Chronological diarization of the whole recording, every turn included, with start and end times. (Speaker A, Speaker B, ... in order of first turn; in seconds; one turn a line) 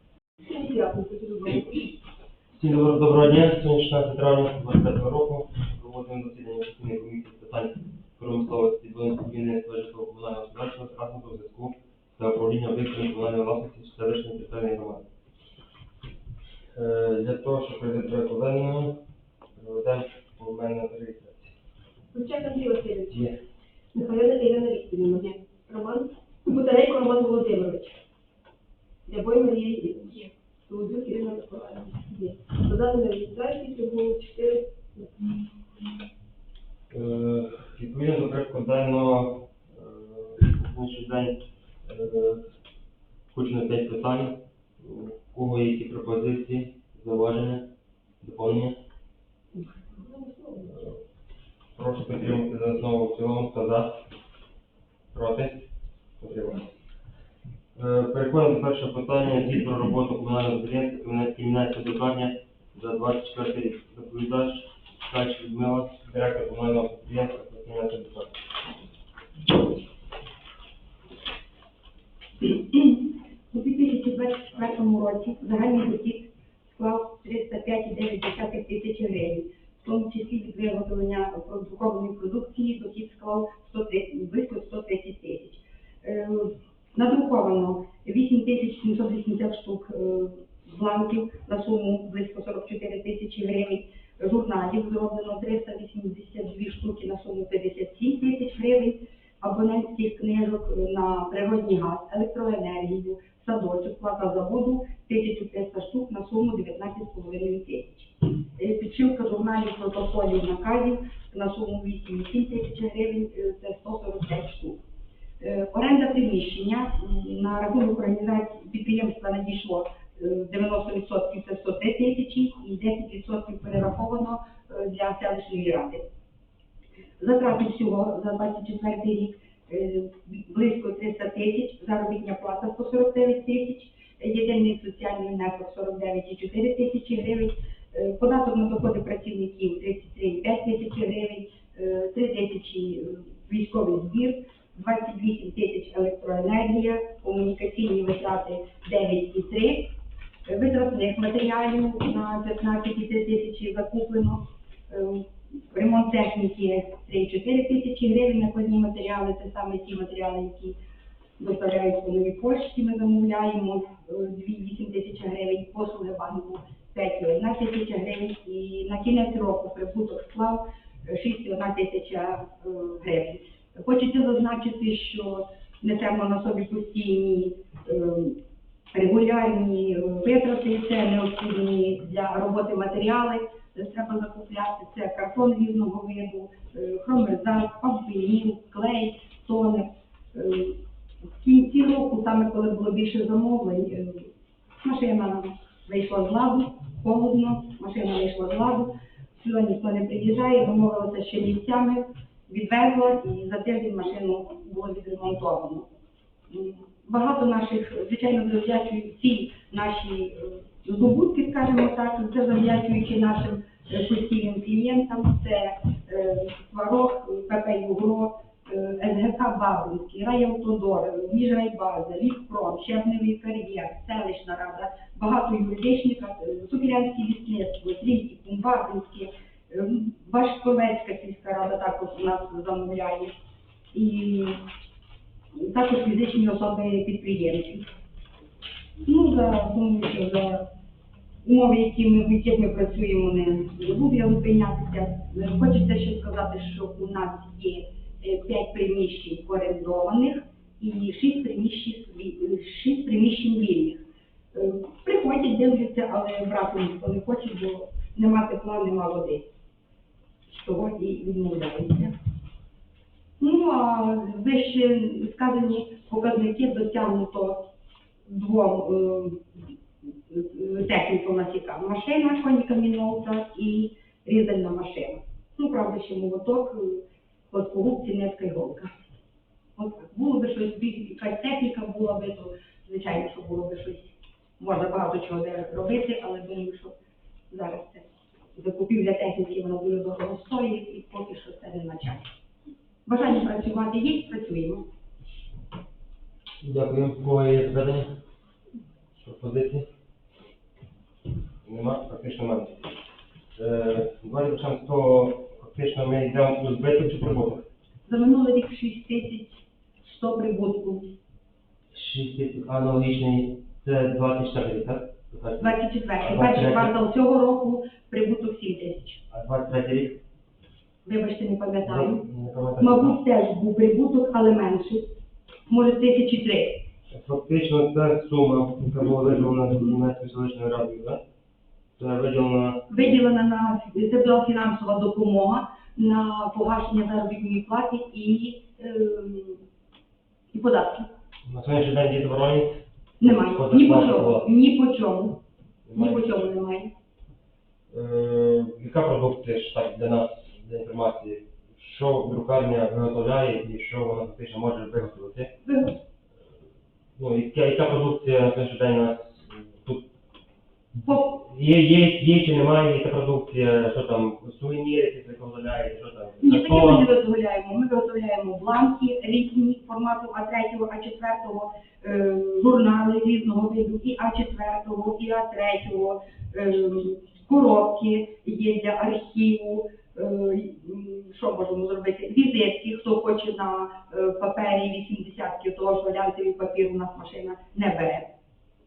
Speaker A: 0.5-1.9
Speaker B: 2.6-15.0
Speaker B: 16.7-19.0
Speaker B: 19.6-21.5
Speaker A: 22.1-23.3
Speaker A: 23.9-28.0
Speaker A: 29.1-35.5
Speaker B: 36.9-42.4
Speaker B: 43.3-47.7
Speaker B: 48.2-48.8
Speaker A: 49.9-50.7
Speaker B: 51.8-54.0
Speaker B: 55.1-55.7
Speaker B: 56.2-56.7
Speaker B: 57.7-68.3
Speaker C: 72.4-114.8
Speaker C: 115.4-126.0
Speaker C: 127.2-149.9
Speaker C: 150.4-160.8
Speaker C: 161.4-178.4
Speaker C: 178.9-190.8
Speaker C: 191.4-194.3
Speaker C: 194.8-205.9
Speaker C: 206.5-233.3
Speaker C: 233.9-234.6
Speaker C: 235.5-237.9
Speaker C: 239.1-240.7
Speaker C: 241.4-254.0
Speaker C: 254.5-259.5
Speaker C: 260.5-262.1
Speaker C: 263.4-267.7
Speaker C: 268.3-278.9
Speaker C: 279.8-286.9
Speaker C: 287.5-292.3
Speaker C: 293.1-294.9
Speaker B: 296.6-298.2
Speaker B: 299.2-299.9
Speaker B: 301.6-302.8
Speaker B: 303.6-307.7
Speaker C: 308.1-311.1
Speaker B: 311.9-316.9
Speaker C: 315.6-319.2
Speaker B: 319.3-320.2
Speaker C: 321.0-322.2
Speaker B: 321.8-323.2
Speaker C: 322.8-325.1
Speaker C: 325.7-326.8
Speaker B: 327.1-331.2
Speaker B: 332.0-333.0
Speaker C: 332.9-339.6
Speaker C: 340.5-341.1
Speaker B: 341.4-342.8
Speaker C: 343.2-345.4
Speaker B: 343.3-344.5
Speaker B: 345.9-346.5
Speaker C: 345.9-346.9
Speaker B: 347.9-355.5
Speaker C: 355.6-355.9
Speaker B: 357.2-360.0
Speaker C: 361.0-361.4
Speaker B: 361.1-367.1
Speaker C: 366.4-388.3